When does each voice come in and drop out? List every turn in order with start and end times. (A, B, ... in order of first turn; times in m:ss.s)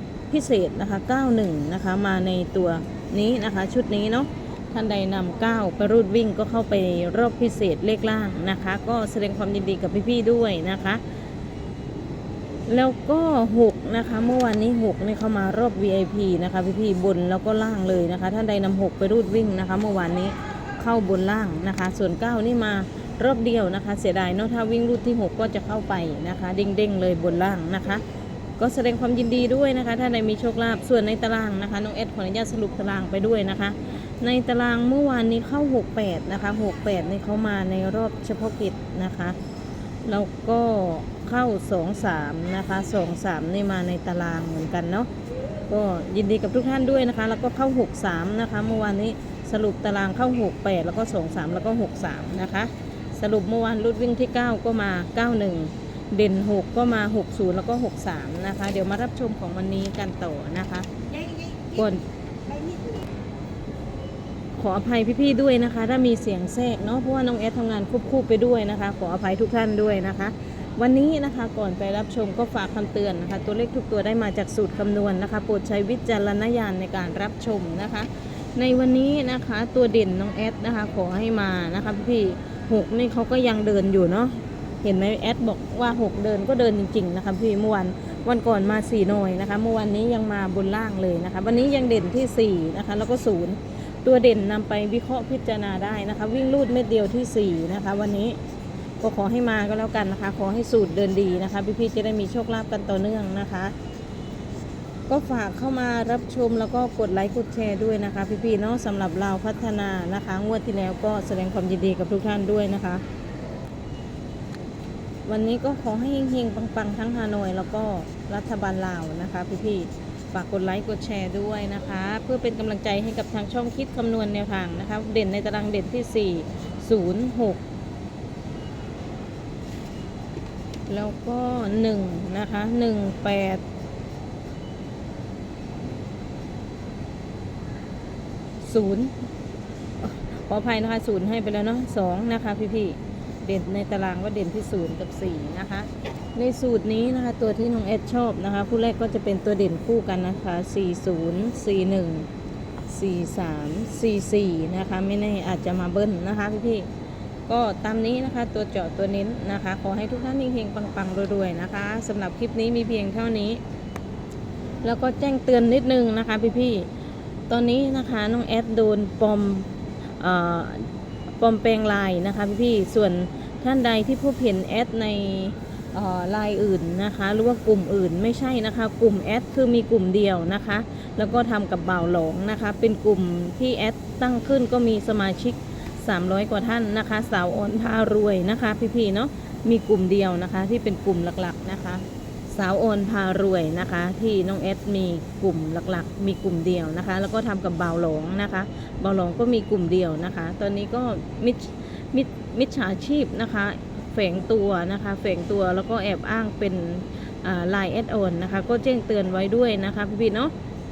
0:00.3-0:11.0 A
0:12.7-0:28.0 A
0:28.6-0:39.4 A
0:40.0-0:45.1 A
0:45.7-1:00.9 A
1:01.7-1:02.0 A
1:04.6-1:38.4 A
1:39.0-1:43.7 A
1:45.1-1:53.0 A
1:55.3-2:07.6 A
2:10.9-2:13.6 A
2:18.6-2:19.1 A
2:20.0-2:32.3 A
2:32.9-2:36.9 A
2:37.5-2:43.6 A
2:44.8-2:46.9 A
2:47.5-2:49.7 A
2:50.2-2:50.9 A
2:51.4-3:30.5 A